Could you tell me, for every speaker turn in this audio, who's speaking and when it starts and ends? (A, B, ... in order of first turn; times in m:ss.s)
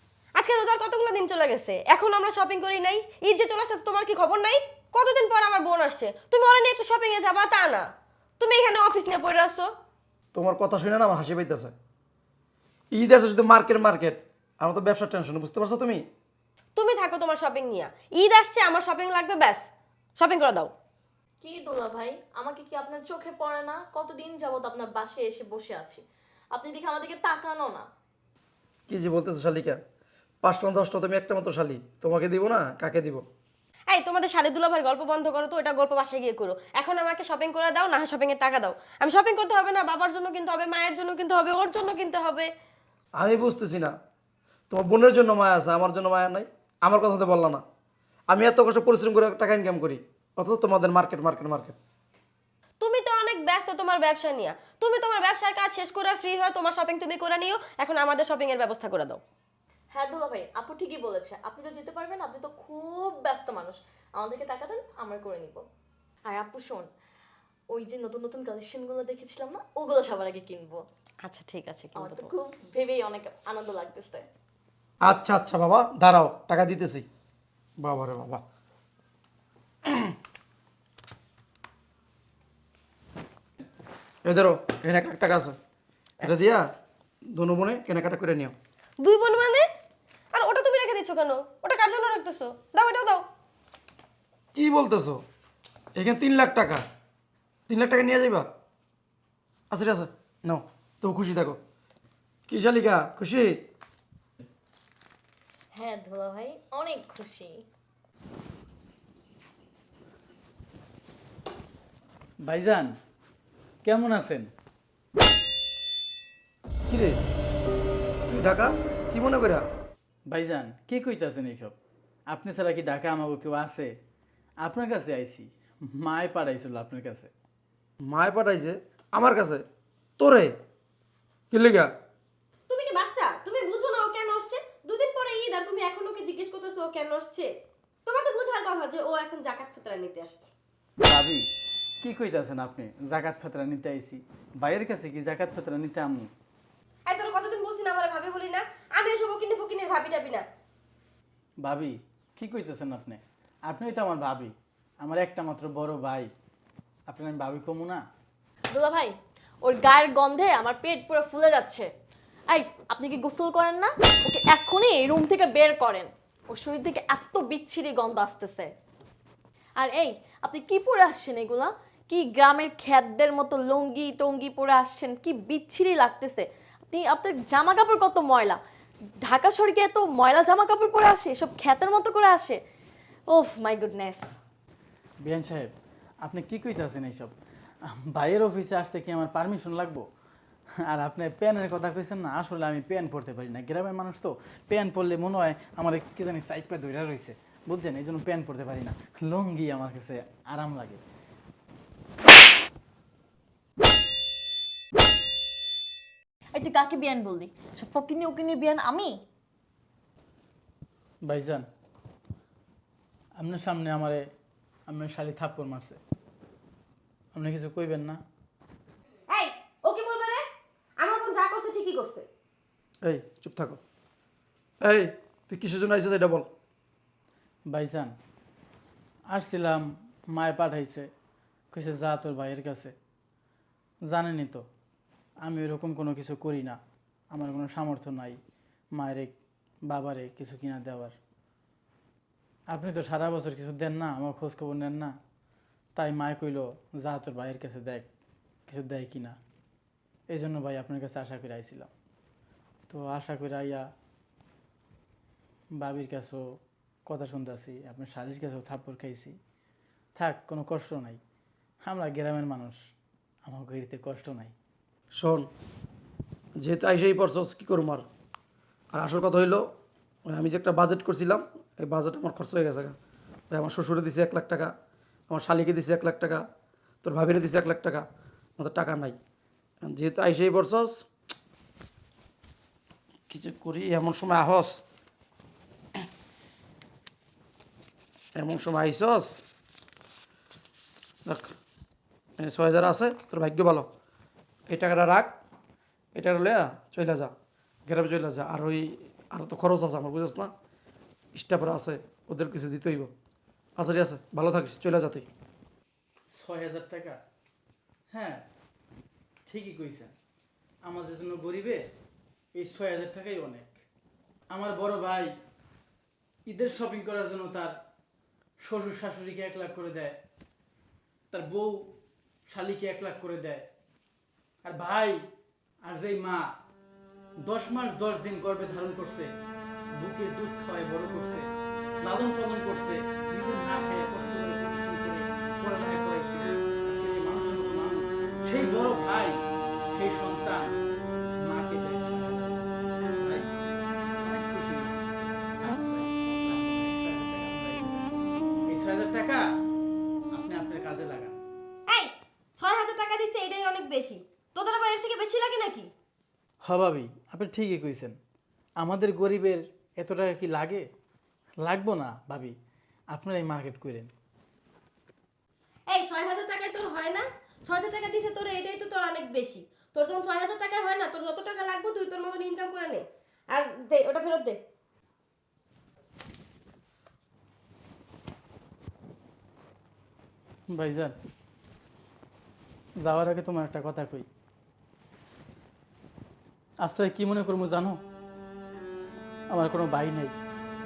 0:00.4-0:07.9 A
0:08.4-0:09.7 A
0:10.3-0:11.7 B
0:12.9-0:16.0 B
0:16.8-0:20.7 A
0:21.4-0:27.9 C
0:28.9-0:29.8 B
0:30.4-0:33.2 B
0:33.9-0:42.5 A
0:43.2-0:43.9 B
0:44.7-0:47.6 B
0:48.3-0:51.8 B
0:52.8-0:59.2 A
0:59.9-1:05.6 C
1:06.3-1:06.9 C
1:07.7-1:10.8 C
1:11.2-1:12.3 A
1:12.0-1:14.3 C
1:15.0-1:17.1 B
1:17.8-1:18.4 B
1:19.9-1:20.1 B
1:24.2-1:25.6 B
1:26.2-1:26.7 B
1:27.3-1:28.6 B
1:29.0-1:29.7 A
1:30.3-1:33.2 A
1:34.6-1:35.2 B
1:36.0-1:36.8 B
1:37.7-1:38.5 B
1:39.7-1:41.6 B
1:42.5-1:43.6 B
1:45.7-1:47.6 C
1:52.4-1:53.0 D
1:53.8-1:54.5 D
1:56.9-1:57.2 B
1:58.3-1:59.7 B
2:00.3-2:01.8 D
2:02.3-2:03.9 D
2:04.6-2:07.3 D
2:08.0-2:09.6 B
2:10.2-2:10.6 B
2:11.5-2:11.9 B
2:12.7-2:17.5 A
2:18.1-2:20.5 A
2:21.0-2:21.5 D
2:22.0-2:26.3 D
2:27.1-2:30.4 A
2:31.6-2:36.3 D
2:37.1-2:38.0 D
2:38.7-2:41.9 C
2:42.5-2:48.7 C
2:49.8-2:58.6 C
2:59.2-3:02.6 C
3:03.3-3:04.3 C
3:05.2-3:05.7 D
3:06.2-3:07.3 D
3:07.8-3:10.0 D
3:10.9-3:21.0 D
3:26.5-3:29.2 C
3:31.2-3:31.6 D
3:33.4-3:34.2 D
3:34.9-3:36.0 D
3:37.3-3:38.2 D
3:39.3-3:40.4 A
3:41.0-3:42.3 A
3:43.0-3:43.8 B
3:44.8-3:46.5 B
3:47.7-3:48.1 D
3:49.3-3:51.1 D
3:51.7-3:52.9 D
3:54.0-3:54.7 D
3:55.4-3:56.8 D
3:57.3-3:58.4 D
3:58.9-4:01.2 D
4:02.7-4:05.2 D
4:06.0-4:08.1 D
4:08.7-4:09.4 D
4:10.3-4:11.9 D
4:12.9-4:13.9 D
4:15.8-4:16.6 D
4:17.1-4:19.4 D
4:20.2-4:21.2 D
4:21.8-4:22.9 D
4:23.4-4:24.5 D
4:25.1-4:25.5 B
4:26.6-4:28.0 B
4:28.9-4:29.6 B
4:30.3-4:33.0 B
4:33.5-4:34.7 B
4:35.3-4:36.4 B
4:37.0-4:38.0 B
4:38.6-4:39.2 B
4:39.8-4:41.0 B
4:43.3-4:44.8 B
4:48.4-4:49.4 B
4:51.3-4:51.6 B
4:52.4-4:53.9 B
4:54.7-4:55.3 B
4:56.2-4:57.3 B
4:57.9-5:00.5 B
5:01.4-5:03.1 B
5:03.8-5:05.3 B
5:06.3-5:07.2 D
5:08.1-5:08.4 D
5:09.5-5:10.1 D
5:10.8-5:11.9 D
5:12.6-5:13.8 D
5:14.5-5:15.4 D
5:16.5-5:17.8 D
5:18.6-5:20.2 D
5:21.3-5:21.9 D
5:22.5-5:23.6 D
5:24.6-5:25.2 D
5:25.8-5:26.5 D
5:27.4-5:29.3 D
5:30.0-5:31.5 D
5:32.0-5:39.4 D
5:39.9-5:40.8 D
5:41.4-5:42.6 D
5:43.2-5:43.5 D
5:44.2-5:45.0 D
5:45.6-5:48.1 D
5:48.7-5:49.4 D
5:50.3-5:51.4 D
5:51.9-5:55.9 A
5:56.6-5:58.2 D
5:58.8-6:00.8 D
6:01.6-6:02.6 D
6:03.1-6:04.1 D
6:05.9-6:14.6 A
6:20.7-6:21.2 D
6:23.0-6:24.3 D
6:26.8-6:28.0 D
6:29.5-6:30.3 D